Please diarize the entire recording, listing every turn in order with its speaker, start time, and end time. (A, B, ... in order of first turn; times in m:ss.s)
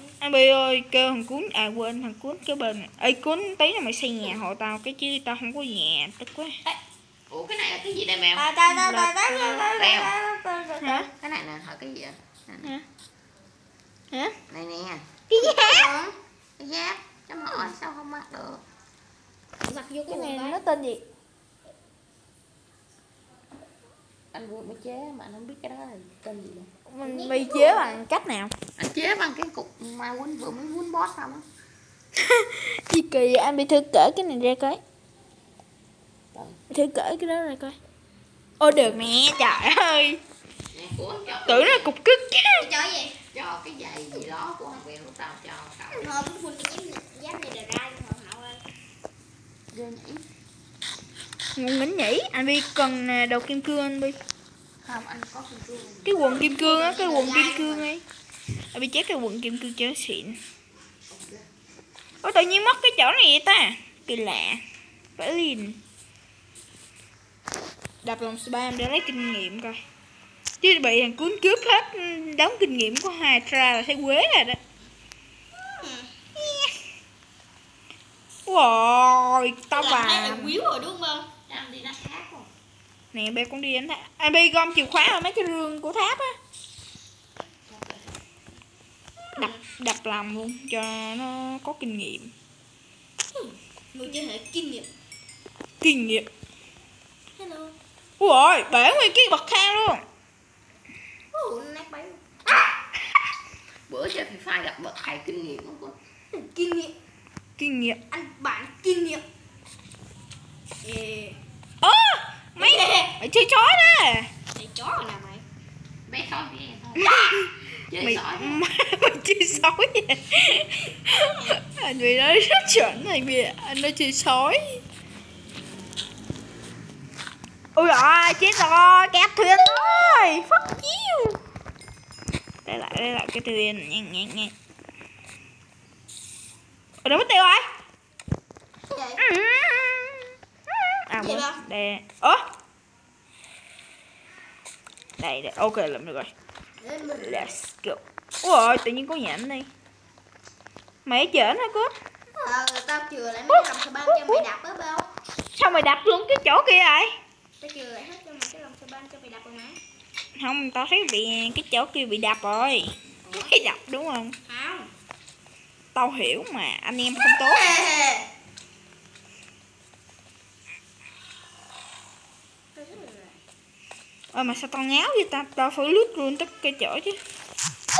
0:00.2-0:06.6 A
0:07.3-0:08.5 B
0:08.4-0:11.1 C
0:08.6-0:09.9 A
0:09.8-0:10.1 B
0:10.8-0:11.1 A
0:11.2-0:12.7 B
0:14.1-0:14.4 A
0:14.5-0:15.1 B
0:15.3-0:15.9 A
0:15.3-0:16.1 C
0:16.6-0:18.6 B
0:19.6-0:20.6 C
0:20.1-0:21.0 A
0:24.3-0:26.7 B
0:26.9-0:28.5 A
0:27.0-0:28.0 C
0:28.8-0:31.4 B
0:32.1-0:34.8 A
0:36.3-0:36.6 B
0:36.7-0:37.8 A
0:38.6-0:40.2 A
0:40.7-0:41.9 B
0:41.5-0:42.7 A
0:42.6-0:43.1 C
0:43.3-0:46.0 B
0:45.9-0:48.6 C
0:49.7-0:50.2 B
0:51.6-0:54.2 A
0:54.8-0:56.2 B
0:56.0-0:58.0 A
0:56.3-0:57.9 C
0:58.7-1:00.4 A
1:01.1-1:01.5 B
1:02.2-1:04.6 A
1:05.2-1:05.8 A
1:08.0-1:09.8 A
1:10.6-1:14.6 A
1:15.5-1:16.1 C
1:18.5-1:20.5 A
1:19.7-1:21.3 C
1:21.5-1:22.5 B
1:23.1-1:26.4 A
1:27.6-1:28.1 B
1:29.3-1:29.6 C
1:29.4-1:32.3 A
1:33.3-1:34.9 C
1:35.8-1:36.3 A
1:37.4-1:37.7 C
1:38.2-1:40.0 A
1:41.3-1:42.6 C
1:43.9-1:46.0 B
1:46.3-1:46.9 C
1:47.6-1:48.0 A
1:48.1-1:49.2 C
1:50.8-1:51.4 C
1:51.8-1:54.3 A
1:52.6-1:53.2 C
1:54.5-1:55.4 C
1:56.1-1:58.6 B
1:57.0-1:57.5 A
1:58.0-2:04.8 A
2:07.8-2:11.4 A
2:12.6-2:14.5 A
2:17.0-2:17.7 A
2:18.9-2:19.2 C
2:19.2-2:22.4 A
2:21.2-2:21.6 C
2:25.2-2:26.3 A
2:26.8-2:27.5 C
2:27.2-2:29.7 A
2:31.0-2:31.9 A
2:32.4-2:35.1 C
2:33.5-2:34.4 A
2:35.6-2:37.2 A
2:37.6-2:39.8 C
2:40.4-2:44.4 A
2:44.5-2:44.9 C
2:45.9-2:47.7 A
2:47.5-2:48.3 C
2:52.8-2:53.3 C
2:54.3-2:57.2 A